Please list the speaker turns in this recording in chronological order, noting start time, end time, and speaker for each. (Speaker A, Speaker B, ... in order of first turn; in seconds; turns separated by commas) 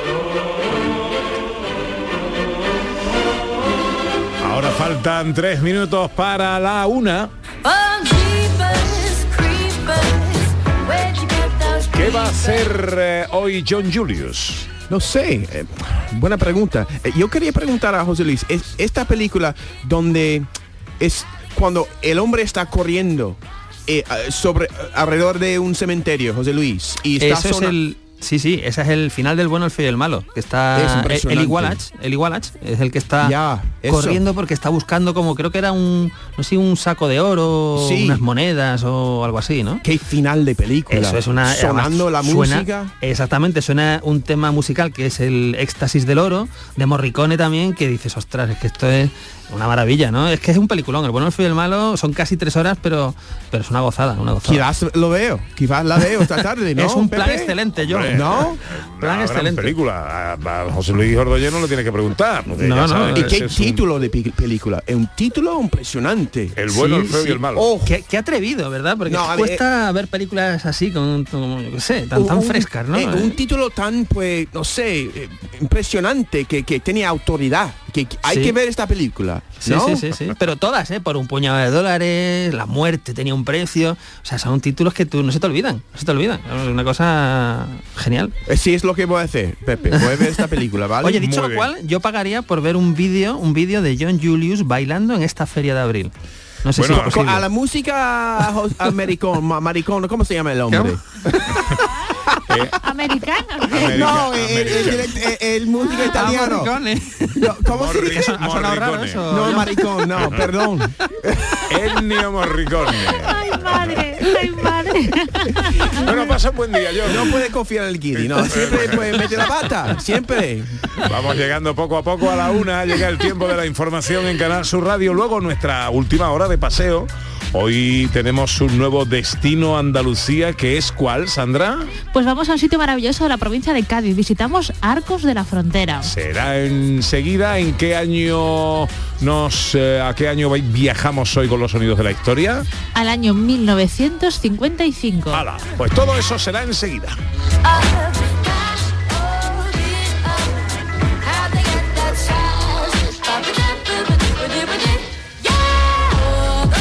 Speaker A: 4.4-7.3, Speaker B: 7.6-12.5, Speaker A: 11.9-14.7, Speaker C: 14.9-20.5, Speaker C: 21.0-27.8, Speaker D: 27.2-39.8, Speaker C: 30.7-31.8, Speaker C: 33.2-34.2, Speaker C: 37.8-38.2, Speaker C: 39.8-42.9, Speaker D: 40.9-54.6, Speaker C: 54.4-57.5, Speaker D: 56.8-59.8, Speaker A: 57.8-63.8, Speaker C: 58.1-58.6, Speaker D: 62.5-63.5, Speaker C: 63.1-66.5, Speaker A: 66.5-67.7, Speaker D: 66.7-73.4, Speaker C: 67.5-67.9, Speaker C: 69.0-69.6, Speaker C: 72.1-80.0, Speaker D: 78.3-78.5, Speaker D: 79.6-88.3, Speaker C: 88.5-91.2, Speaker D: 89.9-90.4, Speaker D: 91.0-96.1, Speaker A: 91.2-91.7, Speaker D: 96.6-97.4, Speaker A: 96.8-97.3, Speaker C: 96.9-101.8, Speaker D: 100.7-101.0, Speaker A: 102.5-102.8, Speaker E: 102.8-104.3, Speaker A: 103.6-105.1, Speaker C: 103.7-106.7, Speaker D: 106.1-109.8, Speaker C: 107.3-108.2, Speaker A: 107.7-109.3, Speaker C: 109.3-111.6, Speaker A: 111.7-114.3, Speaker E: 113.0-117.1, Speaker A: 116.0-117.3, Speaker C: 117.0-120.7, Speaker A: 118.2-119.9, Speaker A: 121.0-131.9, Speaker E: 132.1-136.1, Speaker A: 136.1-142.7, Speaker E: 142.9-145.4, Speaker A: 145.3-147.2, Speaker B: 147.7-150.5, Speaker B: 151.2-155.1, Speaker B: 156.0-156.5